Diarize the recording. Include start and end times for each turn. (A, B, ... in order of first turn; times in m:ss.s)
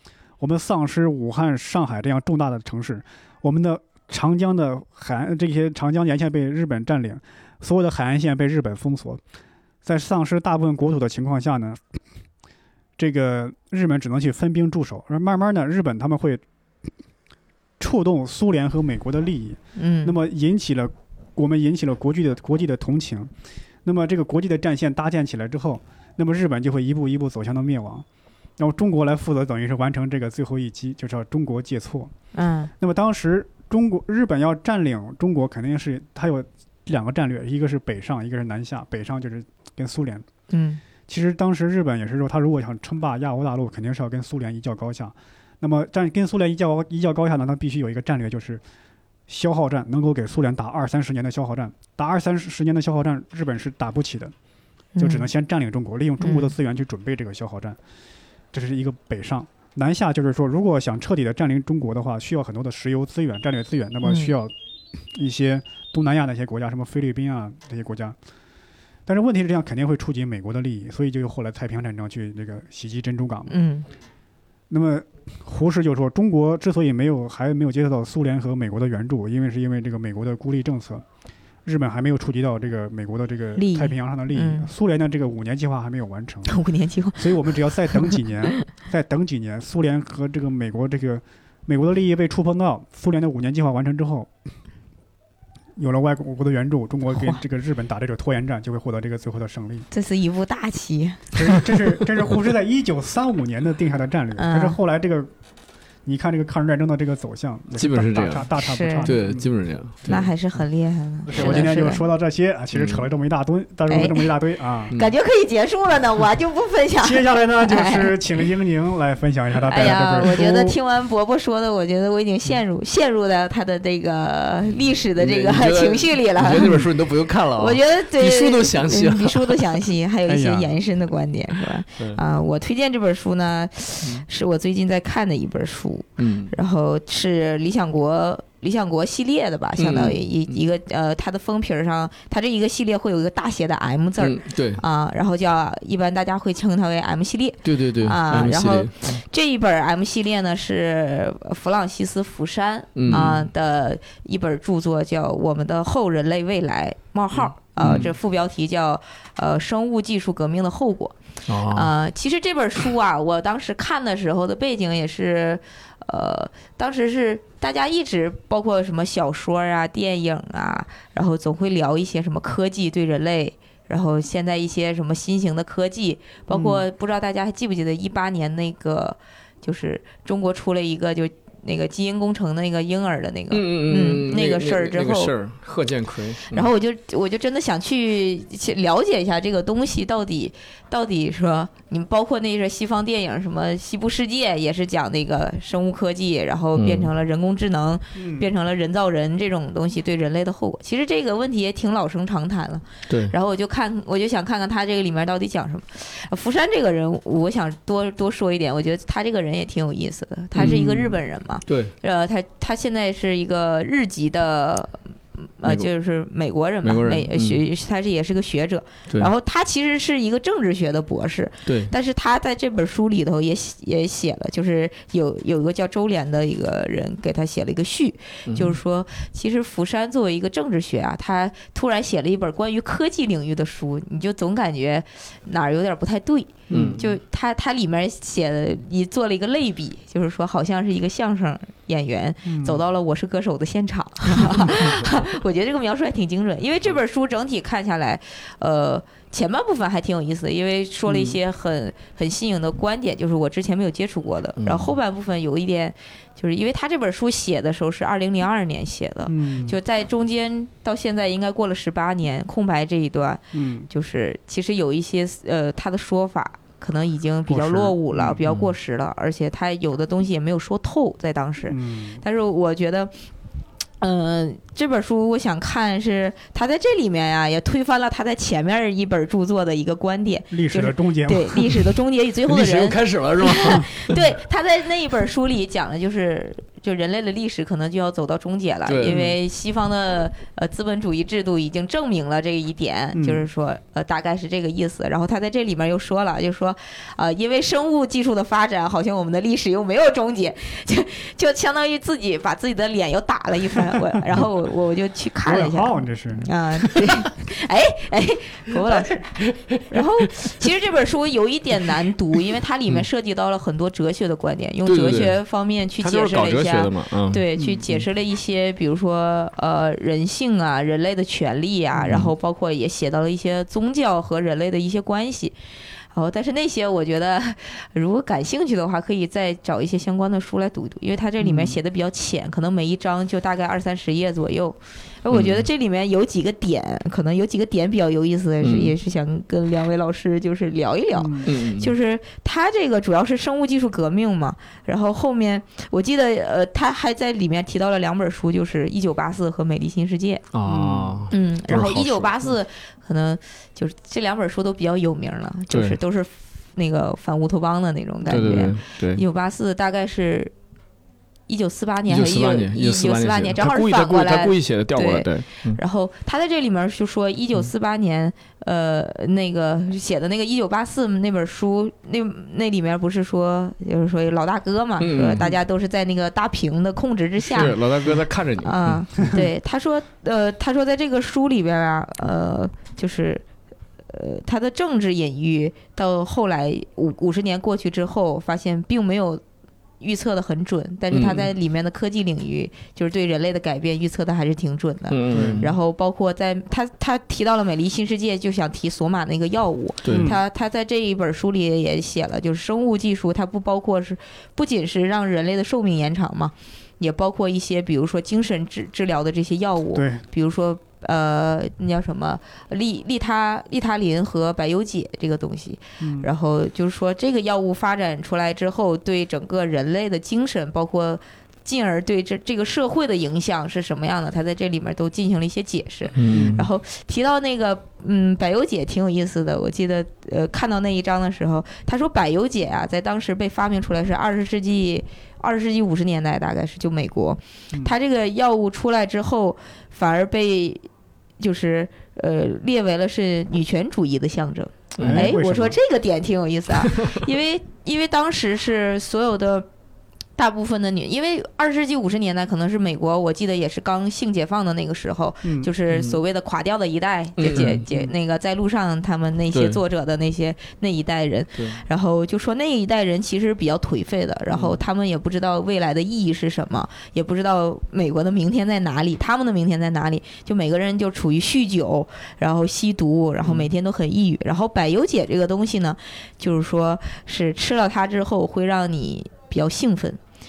0:00.4-0:09.2 A
0:09.8-0:12.0 A
0:13.0-0:16.9 A
0:17.8-0:23.3 A
0:19.8-0:20.2 B
0:23.8-0:28.0 A
0:28.6-0:32.1 A
0:32.3-0:32.7 B
0:32.8-0:40.2 A
0:40.5-0:40.8 B
0:41.1-0:48.6 A
0:49.3-0:54.3 A
0:54.9-0:55.3 B
0:55.0-0:57.8 A
0:56.2-0:56.5 B
0:58.5-1:04.5 A
1:04.0-1:04.3 B
1:05.1-1:08.2 A
1:09.0-1:13.6 A
1:13.5-1:13.9 B
1:14.7-1:21.0 A
1:21.6-1:26.6 A
1:23.6-1:24.7 B
1:26.4-1:28.2 B
1:27.2-1:34.3 A
1:35.8-1:39.9 A
1:37.1-1:37.4 B
1:39.9-1:41.3 B
1:41.3-1:45.3 A
1:44.4-1:44.8 B
1:46.0-1:49.5 A
1:47.8-1:48.4 C
1:48.6-1:49.1 B
1:49.0-1:50.3 C
1:50.0-1:52.0 B
1:51.2-1:54.9 A
1:52.7-1:53.0 C
1:53.9-1:54.3 B
1:54.9-1:58.2 B
1:57.0-2:00.8 A
1:59.7-2:06.8 B
2:05.2-2:09.8 C
2:06.6-2:06.9 A
2:07.5-2:41.2 B
2:10.3-2:10.7 A
2:16.2-2:16.5 C
2:19.8-2:20.2 C
2:24.2-2:24.8 C
2:27.6-2:29.2 C
2:32.9-2:33.4 C
2:37.8-2:38.1 C
2:41.5-2:41.9 C
2:41.7-3:05.3 B
2:56.5-2:56.8 A
3:03.5-3:06.7 C
3:06.5-4:33.1 B
3:16.8-3:17.1 C
3:18.1-3:18.5 A
3:23.1-3:23.3 C
3:30.5-3:31.2 C
3:31.7-3:31.9 C
3:36.8-3:37.6 C
3:41.6-3:41.9 C
3:48.4-3:48.8 C
3:56.7-3:57.0 C
3:56.7-3:57.0 A
4:02.4-4:02.8 A
4:14.6-4:14.9 C
4:19.2-4:19.8 A
4:23.5-4:23.9 A
4:27.5-4:28.4 A
4:31.6-4:32.2 A
4:34.0-5:09.3 B
4:40.5-4:41.9 A
4:42.4-4:44.2 C
4:48.8-4:49.3 C
4:53.1-4:53.4 A
5:05.4-5:06.5 A
5:09.4-5:09.8 C
5:09.9-5:25.6 B
5:14.8-5:15.4 C
5:16.0-5:17.4 C
5:17.6-5:18.0 A
5:21.9-5:22.2 A
5:26.1-5:50.5 B
5:31.4-5:31.8 A
5:35.3-5:35.6 C
5:38.6-5:38.9 C
5:41.1-5:41.5 A
5:41.4-5:41.9 C
5:50.5-5:52.3 C
5:50.7-5:51.2 A
5:51.3-6:00.5 B
5:55.7-5:56.0 C
5:58.3-5:59.2 C
6:01.5-6:17.8 B
6:02.1-6:05.8 C
6:15.0-6:15.5 C
6:17.4-6:19.0 C
6:18.6-6:23.4 B
6:24.1-6:29.4 B
6:30.0-7:20.8 B
6:31.1-6:31.5 C
6:35.1-6:35.7 C
6:35.3-6:35.6 A
6:40.0-6:40.3 C
6:40.1-6:40.4 A
6:49.9-6:50.2 A
6:56.0-6:56.3 A
7:06.1-7:06.6 C
7:06.3-7:06.6 A
7:21.4-7:29.7 B
7:25.0-7:25.3 C
7:25.0-7:25.8 A
7:26.9-7:27.2 C
7:30.4-8:00.2 B
7:35.4-7:35.7 A
7:35.9-7:36.2 C
7:37.4-7:37.8 C
7:37.5-7:38.1 A
7:39.5-7:39.8 C
7:41.6-7:41.8 C